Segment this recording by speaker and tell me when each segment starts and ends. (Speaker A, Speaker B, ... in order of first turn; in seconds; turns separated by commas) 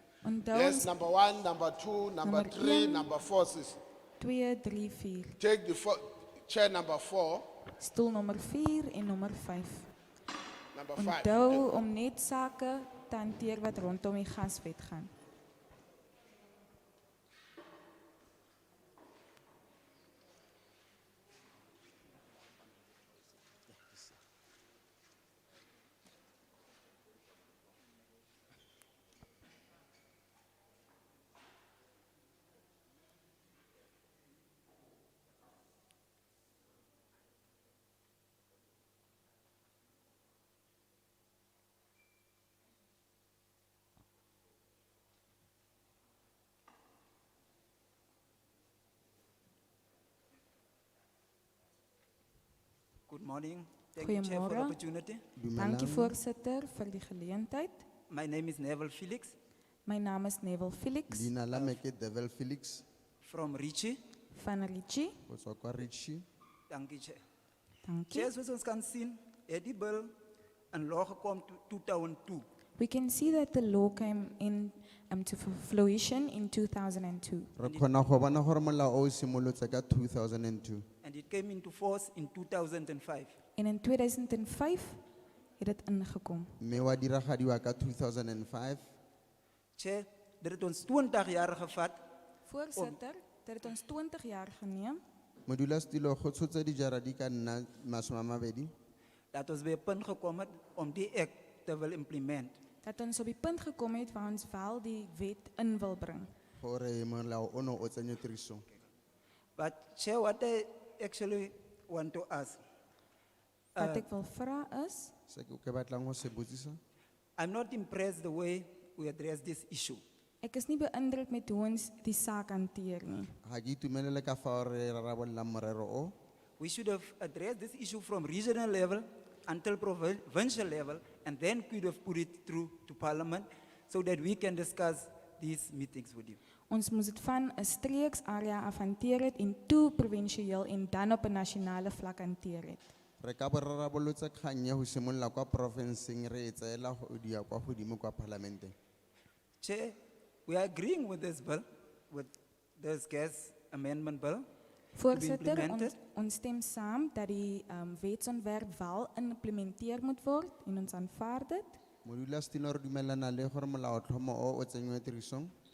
Speaker A: 0.2-0.9, Speaker B: 0.5-3.8, Speaker A: 2.2-3.1, Speaker A: 4.2-5.4, Speaker B: 5.4-7.5, Speaker A: 7.8-9.9, Speaker B: 10.7-11.8, Speaker A: 11.0-15.1, Speaker C: 53.1-55.2, Speaker A: 54.0-54.8, Speaker D: 55.4-56.2, Speaker A: 55.6-57.8, Speaker C: 58.1-59.4, Speaker A: 59.9-61.3, Speaker D: 61.1-62.9, Speaker C: 61.5-61.8, Speaker C: 63.2-64.0, Speaker A: 64.3-65.2, Speaker D: 65.3-66.2, Speaker C: 66.7-67.2, Speaker A: 67.8-68.3, Speaker C: 68.1-70.1, Speaker C: 70.7-72.5, Speaker A: 72.8-77.5, Speaker D: 77.6-80.8, Speaker C: 77.6-78.0, Speaker C: 81.0-83.3, Speaker A: 83.6-85.0, Speaker A: 85.6-86.6, Speaker D: 86.6-88.8, Speaker C: 89.8-92.0, Speaker A: 92.5-95.0, Speaker D: 95.5-98.7, Speaker C: 99.3-102.6, Speaker A: 102.8-106.3, Speaker D: 106.6-108.7, Speaker C: 109.6-112.6, Speaker C: 113.8-114.1, Speaker A: 113.8-115.1, Speaker D: 115.3-116.8, Speaker C: 117.4-120.0, Speaker A: 120.4-123.3, Speaker D: 123.4-126.2, Speaker C: 126.6-136.4, Speaker A: 136.7-142.8, Speaker D: 143.2-148.8, Speaker C: 149.6-154.5, Speaker A: 154.9-161.8, Speaker C: 155.1-155.9, Speaker D: 162.1-165.5